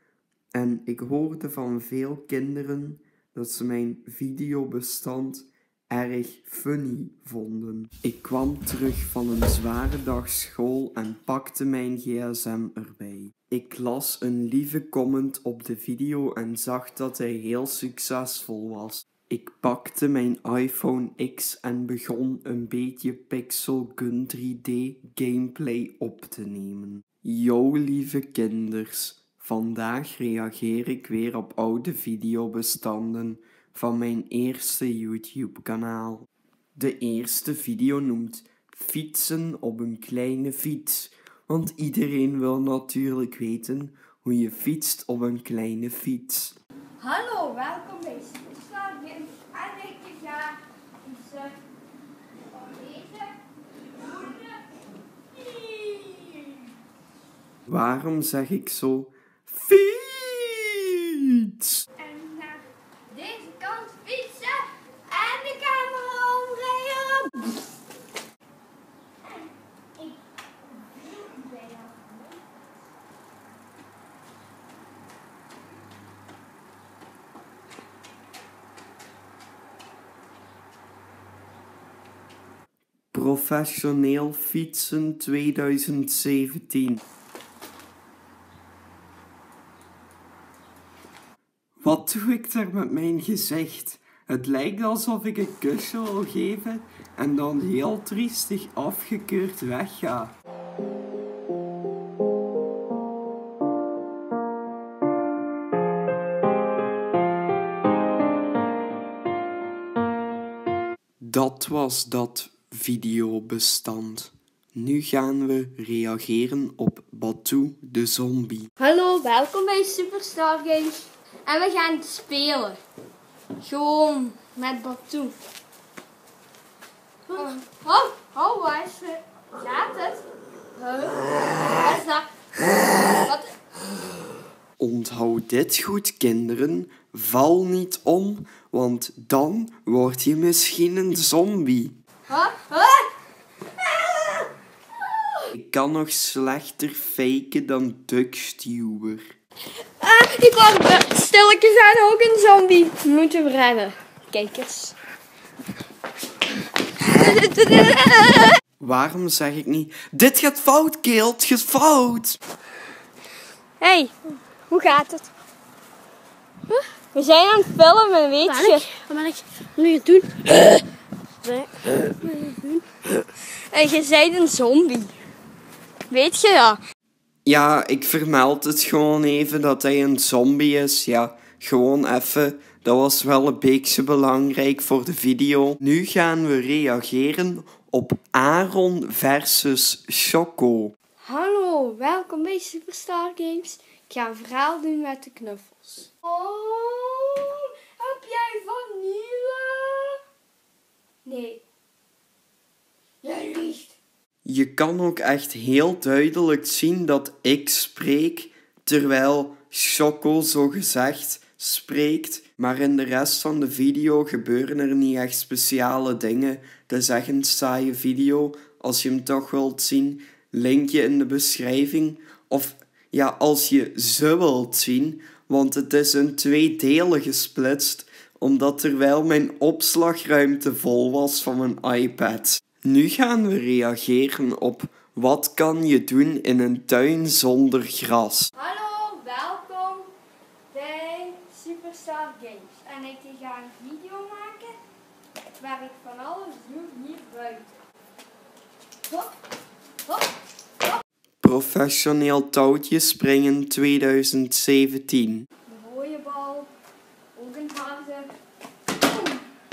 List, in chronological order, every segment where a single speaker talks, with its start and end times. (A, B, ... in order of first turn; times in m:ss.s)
0:00.5-0:46.6 A
0:47.0-0:51.6 B
0:52.5-0:53.4 B
0:54.0-0:54.6 B
0:55.3-0:56.6 B
0:57.7-1:01.9 A
1:02.0-1:07.5 B
1:10.0-1:12.3 B
1:23.1-1:27.0 A
1:31.8-1:40.3 A
1:51.2-1:58.7 A
1:58.8-2:02.8 B
2:03.6-2:05.4 B
2:07.3-2:10.2 B
2:10.8-2:12.3 B
2:13.0-2:13.5 B
2:14.8-2:22.0 A
2:22.3-2:23.1 B
2:23.9-2:24.5 B
2:25.5-2:29.3 A
2:30.0-2:34.9 B
2:37.0-2:38.6 B
2:38.8-2:42.4 A
2:43.8-2:45.3 B
2:47.1-2:48.9 B
2:48.4-2:50.8 C
2:51.4-2:52.8 C
2:53.7-2:55.1 B
2:56.1-2:56.8 B
2:57.4-3:10.9 A
3:11.2-3:20.2 B
3:21.2-3:21.6 B
3:23.2-3:23.9 B
3:24.4-3:58.5 A
3:58.6-4:00.1 B
4:00.7-4:04.8 B
4:05.6-4:07.8 B
4:09.1-4:09.3 B
4:10.0-4:10.3 B
4:11.4-4:15.5 A
4:15.7-4:16.7 B
4:17.3-4:18.3 B
4:19.0-4:19.4 B